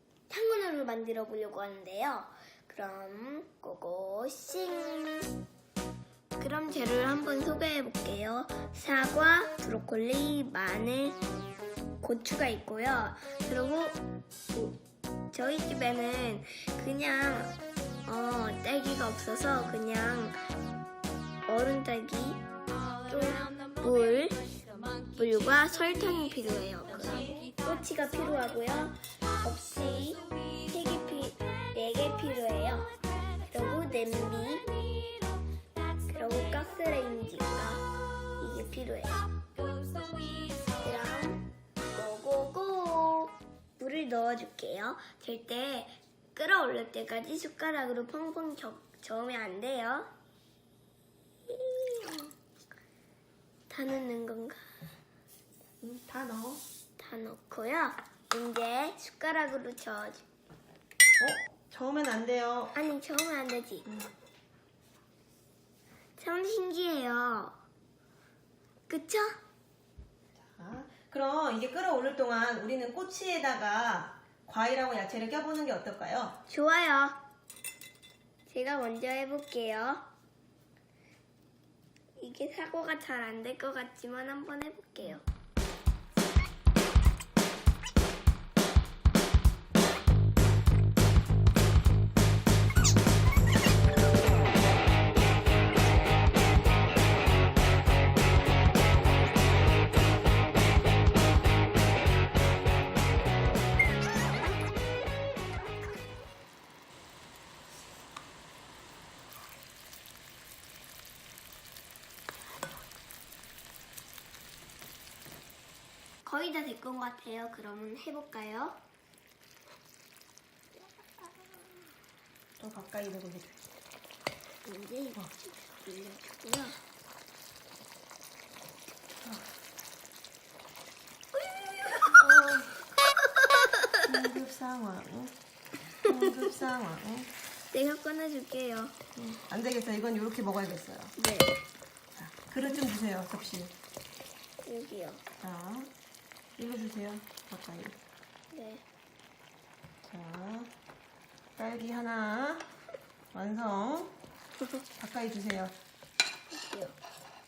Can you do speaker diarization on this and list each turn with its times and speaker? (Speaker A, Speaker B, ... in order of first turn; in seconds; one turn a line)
Speaker A: 0.3-5.3
Speaker A: 6.4-11.2
Speaker A: 12.0-14.8
Speaker A: 15.3-20.4
Speaker A: 21.5-22.4
Speaker A: 23.1-24.4
Speaker A: 25.1-34.8
Speaker A: 36.1-39.3
Speaker A: 40.7-50.1
Speaker A: 51.5-52.3
Speaker A: 53.7-54.6
Speaker B: 55.8-56.6
Speaker A: 57.0-60.2
Speaker B: 61.2-62.8
Speaker A: 62.7-63.9
Speaker B: 63.9-64.1
Speaker A: 66.2-67.6
Speaker A: 68.9-69.4
Speaker B: 70.4-76.4
Speaker A: 76.5-77.2
Speaker A: 78.5-80.1
Speaker A: 82.2-85.2
Speaker A: 116.2-118.8
Speaker B: 122.6-123.6
Speaker A: 124.7-126.8
Speaker A: 131.5-132.3
Speaker B: 132.2-132.8
Speaker B: 134.0-135.3
Speaker B: 136.0-137.3
Speaker A: 137.7-138.9
Speaker B: 139.2-141.2
Speaker A: 141.2-141.6
Speaker B: 142.2-143.7
Speaker A: 144.6-145.2
Speaker B: 145.4-145.9
Speaker B: 146.6-148.0
Speaker A: 148.5-148.8
Speaker B: 150.0-150.7
Speaker B: 151.6-152.7
Speaker B: 153.3-154.2
Speaker B: 155.0-155.7
Speaker A: 156.5-157.0